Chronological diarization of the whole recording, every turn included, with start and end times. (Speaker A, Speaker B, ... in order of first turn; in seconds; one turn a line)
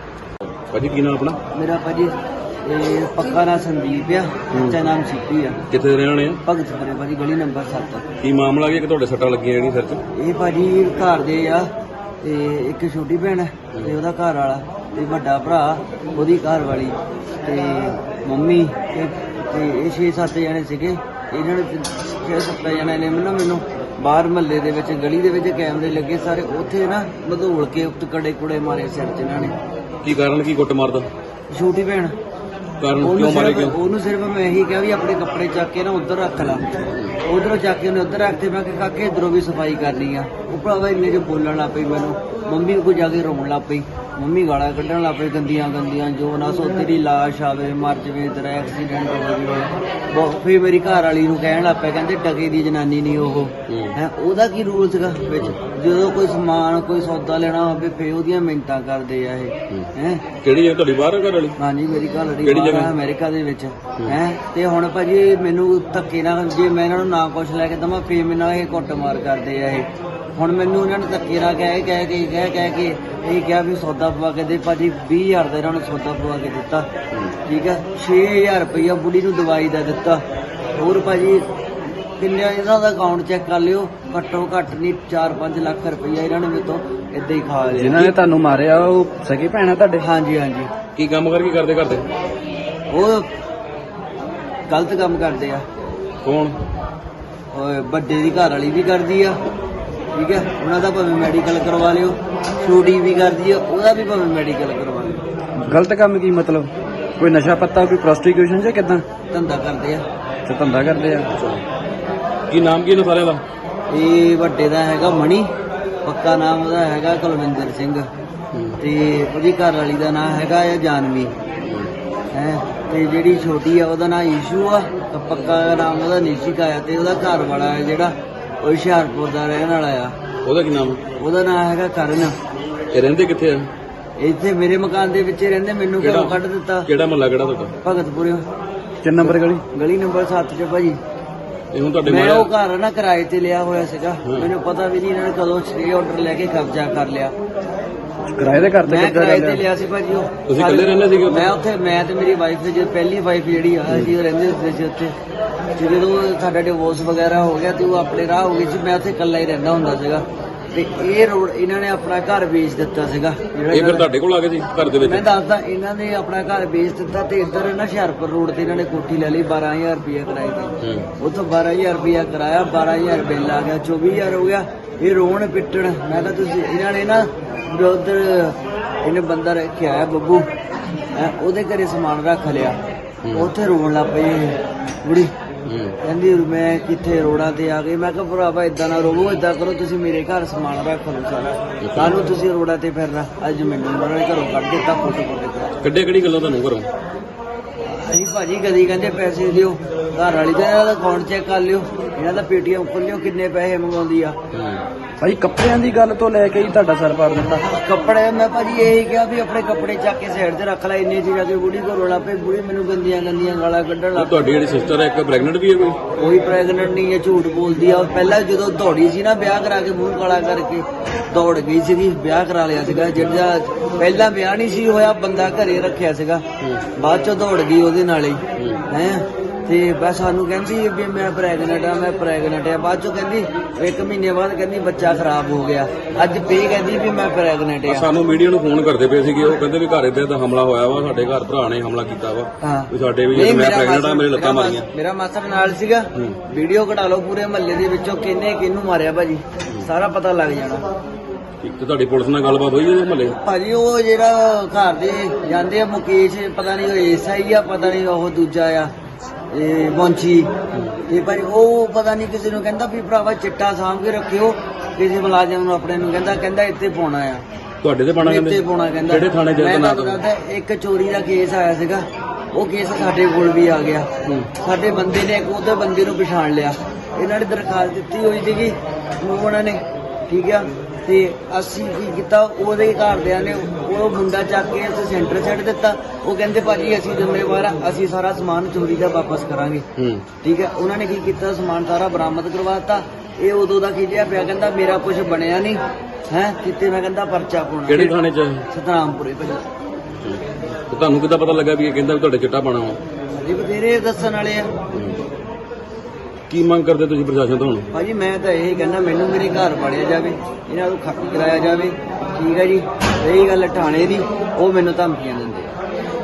Speaker A: 0.7-1.4
Speaker B: 1.5-5.6
Speaker A: 5.7-6.4
Speaker B: 6.4-8.0
Speaker A: 8.2-10.0
Speaker B: 10.1-11.7
Speaker B: 12.2-29.5
Speaker A: 30.0-31.1
Speaker B: 31.5-32.1
Speaker A: 32.8-33.7
Speaker B: 33.0-36.7
Speaker B: 37.2-60.2
Speaker A: 60.4-61.5
Speaker B: 61.6-76.9
Speaker A: 62.4-62.9
Speaker B: 77.4-80.2
Speaker B: 80.7-81.4
Speaker B: 82.2-88.1
Speaker C: 87.7-90.0
Speaker B: 90.0-90.7
Speaker A: 90.9-92.0
Speaker B: 92.9-93.3
Speaker B: 94.7-95.6
Speaker A: 96.2-96.5
Speaker B: 97.5-99.4
Speaker B: 100.1-105.2
Speaker C: 105.6-109.0
Speaker B: 109.3-110.0
Speaker C: 110.5-111.3
Speaker A: 111.3-111.6
Speaker A: 112.5-113.4
Speaker B: 113.9-115.5
Speaker B: 116.0-118.1
Speaker B: 118.8-121.3
Speaker A: 121.7-121.9
Speaker B: 122.3-130.1
Speaker A: 130.4-131.0
Speaker B: 131.2-132.3
Speaker A: 132.9-133.7
Speaker B: 134.2-136.9
Speaker A: 136.0-136.3
Speaker A: 136.8-137.7
Speaker B: 137.8-138.4
Speaker C: 139.0-139.6
Speaker B: 139.2-141.0
Speaker A: 141.7-142.5
Speaker B: 142.0-147.3
Speaker C: 148.3-149.6
Speaker B: 148.8-155.1
Speaker A: 150.5-151.5
Speaker B: 155.8-164.1
Speaker A: 163.7-165.2
Speaker B: 165.0-180.4
Speaker A: 170.8-171.1
Speaker B: 181.1-182.8
Speaker B: 183.3-185.3
Speaker B: 186.0-195.7
Speaker A: 195.8-196.9
Speaker B: 197.8-204.4
Speaker A: 204.5-204.8
Speaker C: 205.2-207.6
Speaker B: 207.6-214.4
Speaker A: 214.2-216.0
Speaker B: 216.2-226.4
Speaker B: 227.0-238.1
Speaker A: 237.9-244.9
Speaker B: 242.6-250.8
Speaker A: 251.6-253.3
Speaker B: 253.3-258.9
Speaker B: 259.5-260.5
Speaker B: 261.1-267.4
Speaker A: 267.8-268.5
Speaker B: 268.2-274.1
Speaker A: 269.1-270.1
Speaker B: 274.6-289.8
Speaker B: 290.4-298.2
Speaker A: 297.9-298.6
Speaker B: 298.7-299.6
Speaker A: 300.2-303.0
Speaker B: 303.4-304.7
Speaker A: 306.5-307.9
Speaker B: 307.9-315.7